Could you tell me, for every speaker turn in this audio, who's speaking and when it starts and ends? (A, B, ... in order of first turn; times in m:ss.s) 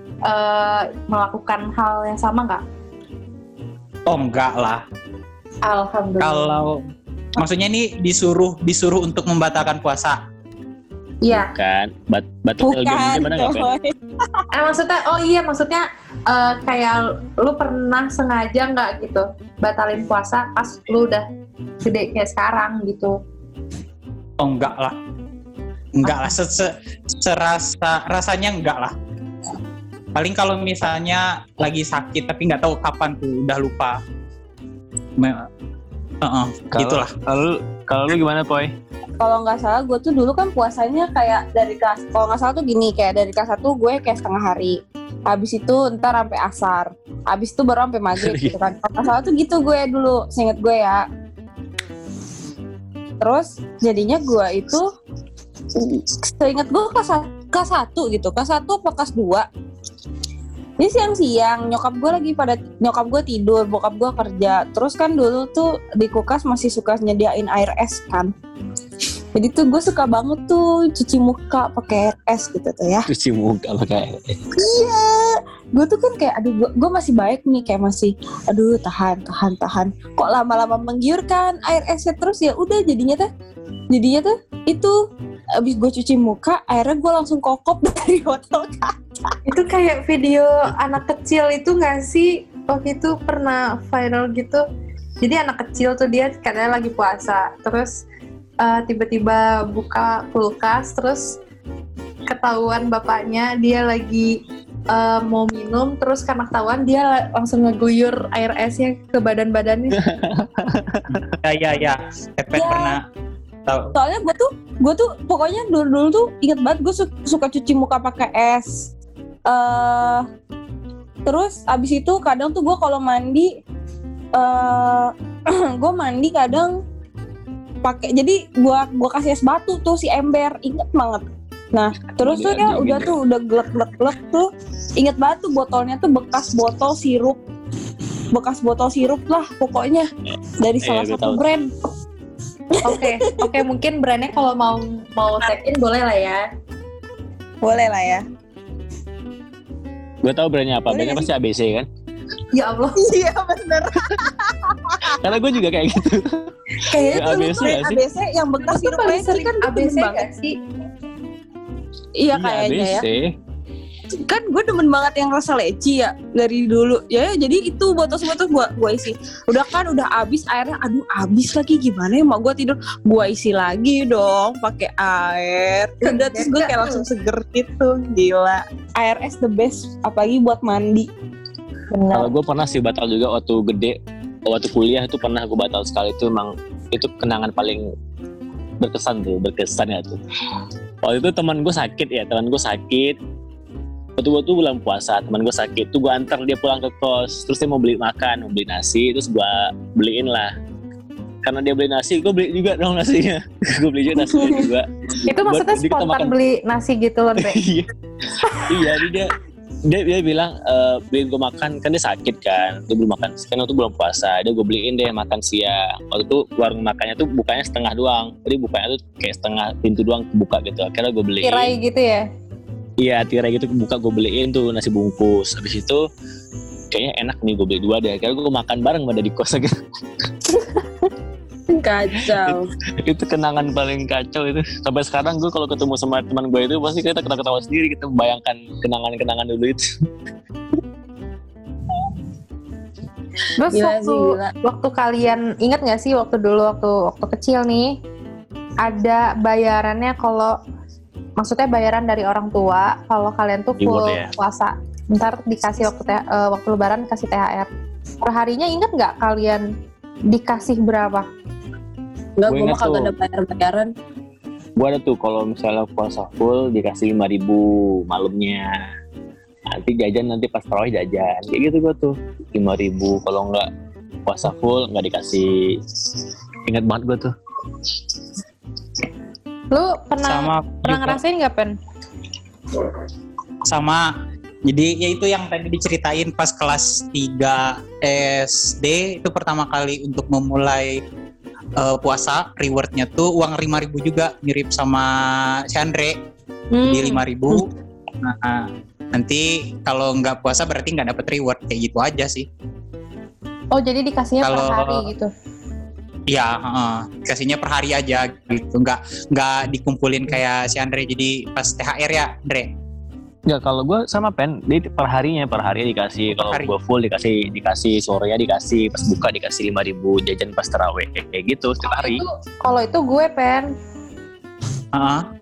0:00.3-0:02.6 A
0:04.1-0:04.8 B
0:05.6-0:06.6 A
0:06.2-0:06.8 B
0:07.4-0:10.2 B
0:11.2-0:11.5 A
0:11.3-0:13.7 C
0:12.6-0:13.9 D
0:14.5-0:21.2 A
0:21.8-0:23.2 A
0:24.4-0:25.0 B
0:26.0-0:29.0 B
0:30.2-0:34.0 B
0:35.2-0:35.4 B
0:36.2-0:37.2 B
0:36.7-0:38.7 C
0:39.2-0:51.0 D
0:48.2-0:48.6 C
0:53.2-0:54.9 D
0:55.8-0:59.5 D
1:00.8-1:08.3 D
1:09.4-1:13.1 D
1:13.1-1:14.4 C
1:14.6-1:23.3 D
1:23.9-1:25.0 D
1:25.6-1:28.9 D
1:29.5-1:34.6 A
1:35.2-1:38.0 A
1:38.6-1:41.4 A
1:42.3-1:44.4 A
1:44.9-1:50.0 A
1:49.9-1:51.2 C
1:51.4-1:53.0 B
1:52.6-1:53.0 D
1:53.7-1:53.9 B
1:54.0-1:58.9 D
1:59.5-2:00.2 D
2:01.2-2:03.5 D
2:04.3-2:06.8 D
2:07.8-2:17.4 D
2:12.2-2:13.2 C
2:18.3-2:20.1 D
2:20.6-2:21.7 D
2:20.8-2:21.4 C
2:22.8-2:23.5 D
2:22.8-2:26.4 A
2:27.6-2:28.2 D
2:30.2-2:31.9 C
2:30.9-2:31.3 D
2:32.5-2:33.0 A
2:33.0-2:35.1 D
2:35.0-2:38.0 C
2:36.9-2:37.3 A
2:37.0-2:40.3 D
2:38.7-2:40.5 A
2:42.2-2:43.0 D
2:42.3-2:43.3 C
2:44.2-3:01.1 D
2:56.0-2:57.0 A
3:01.9-3:02.3 A
3:02.1-3:07.8 C
3:08.8-3:10.2 C
3:11.0-3:13.2 C
3:14.2-3:20.5 C
3:21.4-3:26.4 C
3:24.3-3:24.6 D
3:25.2-3:27.6 A
3:27.4-3:27.9 C
3:28.5-3:28.8 A
3:28.6-3:29.3 C
3:29.9-3:41.8 C
3:41.4-3:42.2 A
3:43.0-3:46.0 C
3:46.9-3:49.7 C
3:51.7-3:52.7 D
3:52.4-3:59.9 C
4:03.6-4:07.9 A
4:03.7-4:04.5 D
4:08.8-4:10.5 A
4:11.4-4:17.7 A
4:13.8-4:14.3 C
4:18.2-4:19.6 A
4:20.3-4:21.3 A
4:22.4-4:23.9 D
4:22.5-4:23.1 C
4:24.8-4:28.8 C
4:29.7-4:33.7 C
4:34.3-4:35.5 C
4:36.7-4:37.3 C
4:39.7-4:41.8 A
4:40.2-4:41.2 B
4:43.7-4:44.1 B
4:44.7-4:51.0 B
4:51.8-4:55.1 B
4:55.7-4:56.2 B
4:56.7-4:57.6 A
4:56.8-4:57.6 B
4:58.2-5:02.5 B
5:03.7-5:05.3 A
5:04.4-5:05.1 B
5:06.3-5:12.7 B
5:13.5-5:22.2 C
5:16.3-5:16.7 B
5:21.8-5:23.7 A
5:24.9-5:25.2 B